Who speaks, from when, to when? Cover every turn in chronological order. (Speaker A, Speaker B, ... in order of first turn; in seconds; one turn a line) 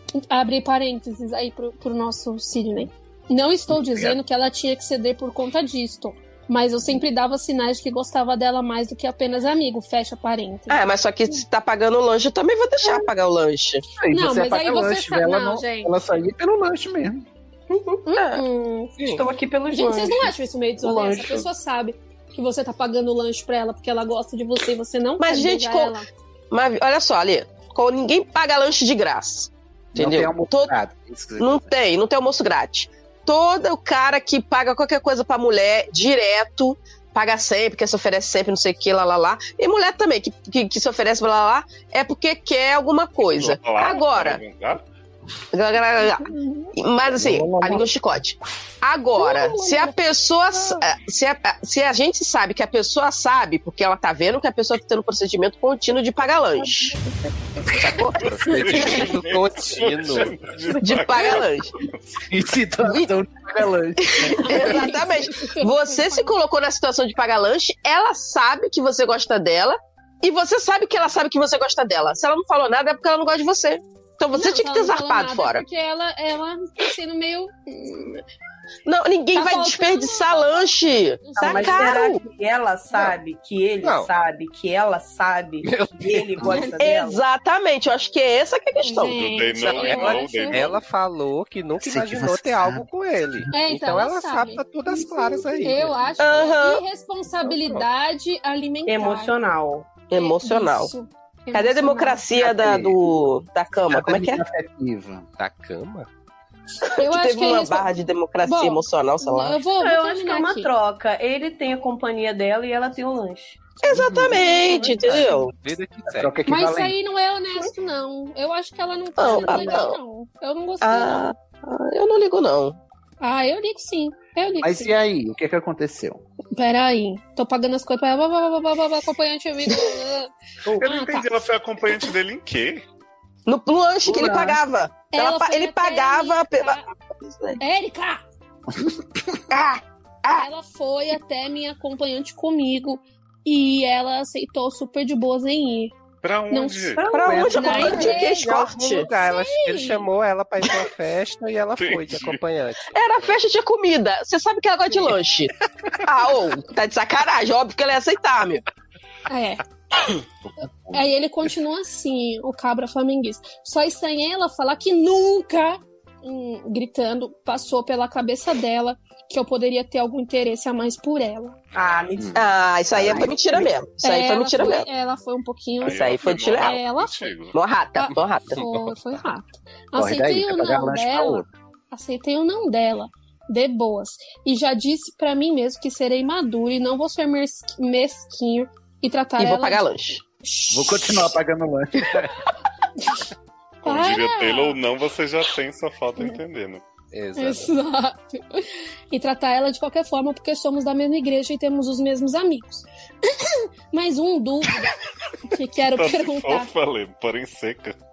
Speaker A: 0.3-10.8
Speaker B: 3.7-4.2
Speaker C: 10.7-13.8
Speaker B: 14.0-17.2
Speaker A: 14.1-15.9
Speaker D: 17.7-18.0
Speaker A: 18.1-18.9
Speaker C: 18.1-18.4
Speaker D: 19.0-21.5
Speaker A: 19.7-26.1
Speaker C: 25.2-26.0
Speaker C: 26.5-30.7
Speaker B: 29.9-31.8
Speaker C: 31.4-44.4
Speaker E: 43.2-44.8
Speaker C: 45.5-57.0
Speaker A: 46.0-46.7
Speaker B: 47.2-47.9
Speaker A: 49.2-50.0
Speaker D: 56.6-57.6
Speaker B: 57.8-58.2
Speaker F: 58.2-60.4
Speaker E: 58.5-62.1
Speaker C: 60.8-61.7
Speaker B: 62.2-64.8
Speaker C: 64.0-75.6
Speaker A: 64.4-66.3
Speaker A: 74.3-78.2
Speaker C: 78.9-82.2
Speaker A: 79.3-80.7
Speaker A: 81.3-82.0
Speaker D: 81.3-87.2
Speaker F: 83.8-84.1
Speaker F: 85.6-86.6
Speaker C: 86.8-89.2
Speaker A: 88.8-90.7
Speaker E: 89.1-90.8
Speaker F: 89.6-96.3
Speaker B: 91.8-93.7
Speaker A: 93.5-99.3
Speaker C: 96.2-96.8
Speaker F: 97.5-97.8
Speaker D: 98.9-99.9
Speaker C: 100.1-100.9
Speaker A: 100.1-102.2
Speaker C: 101.5-104.4
Speaker B: 102.3-103.0
Speaker B: 103.9-105.3
Speaker F: 105.4-106.1
Speaker C: 106.9-109.7
Speaker A: 107.0-107.9
Speaker A: 108.4-110.7
Speaker D: 109.7-113.7
Speaker C: 113.8-115.5
Speaker B: 113.9-114.5
Speaker A: 114.3-115.4
Speaker F: 115.5-116.3
Speaker B: 116.1-117.0
Speaker A: 116.5-121.3
Speaker C: 119.2-120.0
Speaker D: 119.2-119.9
Speaker C: 120.8-122.8
Speaker A: 123.2-124.9
Speaker B: 124.6-126.2
Speaker A: 126.5-131.3
Speaker E: 130.8-132.8
Speaker C: 133.5-137.6
Speaker B: 134.1-134.6
Speaker D: 134.2-134.5
Speaker A: 135.1-136.8
Speaker A: 137.6-138.2
Speaker B: 138.7-139.4
Speaker C: 139.5-140.5
Speaker A: 140.3-145.9
Speaker E: 146.2-147.1
Speaker A: 146.5-150.1
Speaker D: 146.9-148.7
Speaker C: 147.1-149.1
Speaker B: 147.3-148.1
Speaker F: 148.7-153.4
Speaker E: 151.8-152.4
Speaker C: 152.9-155.5
Speaker C: 156.0-158.6
Speaker A: 159.3-159.6
Speaker B: 160.5-161.1
Speaker A: 160.9-171.6
Speaker D: 171.8-172.4
Speaker B: 172.2-173.4
Speaker C: 172.3-174.9
Speaker A: 174.0-177.3
Speaker E: 175.8-177.6
Speaker C: 175.8-176.8
Speaker C: 177.5-178.6
Speaker A: 178.0-189.8
Speaker F: 178.5-179.2
Speaker B: 180.0-181.5
Speaker C: 189.4-190.2
Speaker A: 190.4-191.3
Speaker B: 190.7-192.4
Speaker E: 193.8-196.8
Speaker A: 193.8-194.8
Speaker F: 197.1-197.7
Speaker A: 197.4-204.9
Speaker A: 205.5-206.7
Speaker E: 205.9-208.0